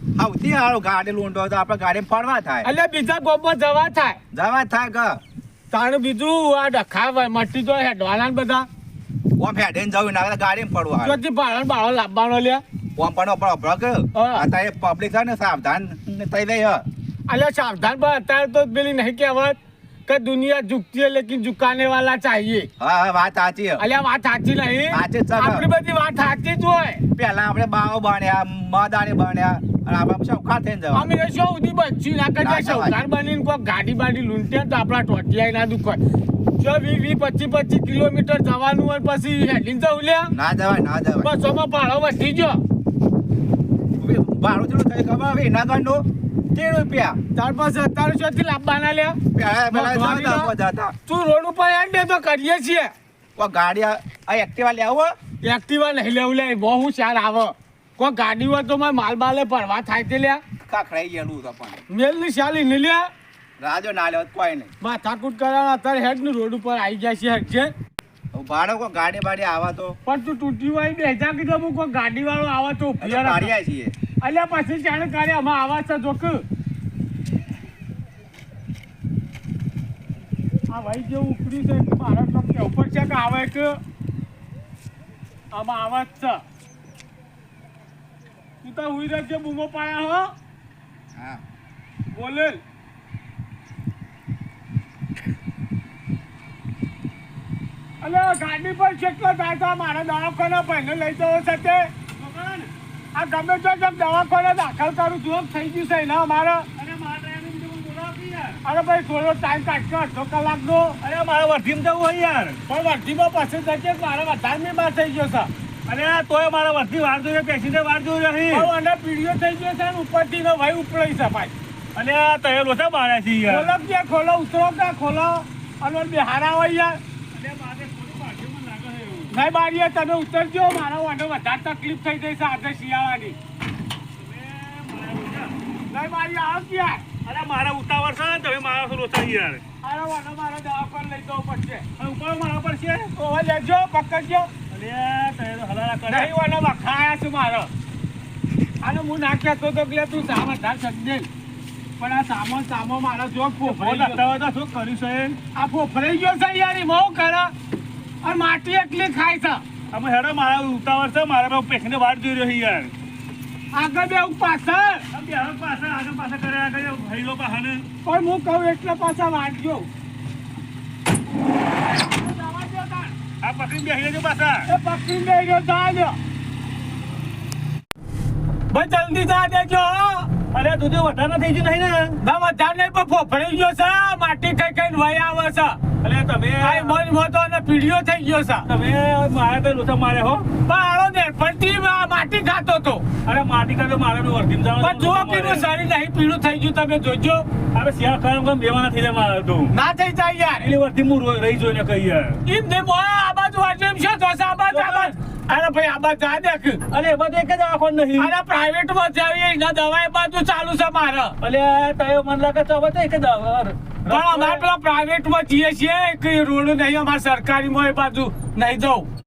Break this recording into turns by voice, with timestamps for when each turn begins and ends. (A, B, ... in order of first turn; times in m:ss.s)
0:00.2-0:02.7 A
0:02.6-0:04.2 B
0:04.3-0:05.2 A
0:05.7-0:08.7 B
0:09.4-0:11.2 A
0:11.0-0:12.6 B
0:13.0-0:16.8 A
0:14.1-0:14.5 B
0:17.3-0:22.7 B
0:22.8-0:23.8 A
0:23.8-0:27.0 B
0:24.9-0:25.7 A
0:27.1-0:31.1 A
0:30.9-0:36.0 B
0:32.4-0:33.0 A
0:36.6-0:40.3 B
0:40.3-0:41.3 A
0:41.2-0:42.6 B
0:44.0-0:47.2 A
0:47.4-0:49.2 B
0:49.3-0:51.0 A
0:49.7-0:50.5 B
0:51.1-0:52.9 B
0:53.4-0:55.1 A
0:55.4-1:00.4 B
1:00.6-1:01.8 A
1:01.9-1:03.1 B
1:03.6-1:04.7 A
1:04.8-1:07.7 B
1:08.3-1:10.0 A
1:10.1-1:13.5 B
1:13.0-1:13.9 A
1:14.2-1:16.4 B
1:20.7-1:23.8 B
1:25.5-1:26.4 B
1:28.6-1:30.3 B
1:31.2-1:31.4 A
1:32.1-1:32.6 B
1:38.0-1:41.9 B
1:42.2-1:42.7 C
1:43.2-1:46.7 B
1:46.8-1:48.6 C
1:48.6-1:51.0 B
1:51.0-1:52.6 C
1:52.7-1:55.5 B
1:55.9-1:58.7 C
1:58.5-2:01.5 B
2:02.0-2:03.7 C
2:03.5-2:07.0 B
2:07.3-2:09.3 C
2:09.3-2:13.4 B
2:14.2-2:15.5 C
2:15.9-2:17.1 B
2:17.2-2:19.6 C
2:19.8-2:21.8 B
2:22.0-2:23.1 C
2:23.1-2:24.5 B
2:24.7-2:26.4 C
2:26.1-2:27.7 B
2:28.8-2:31.3 B
2:32.0-2:34.2 B
2:33.6-2:35.4 C
2:35.6-2:37.5 B
2:38.2-2:39.6 B
2:39.9-2:42.9 C
2:43.7-2:45.0 B
2:45.1-2:47.8 C
2:48.0-2:49.9 B
2:52.0-2:53.2 B
2:53.4-2:54.7 C
2:54.7-2:56.2 B
2:58.7-3:00.3 B
3:00.5-3:02.2 C
3:02.2-3:05.8 B
3:06.0-3:07.0 C
3:06.6-3:08.6 B
3:08.7-3:10.5 C
3:10.6-3:13.1 B
3:13.2-3:15.7 C
3:14.8-3:17.5 B
3:17.8-3:19.7 C
3:19.7-3:20.7 B
3:20.6-3:22.4 C
3:22.5-3:26.8 B
3:24.7-3:25.1 C
3:26.9-3:28.3 C
3:28.2-3:31.3 B
3:31.4-3:34.7 C
3:34.1-3:39.1 B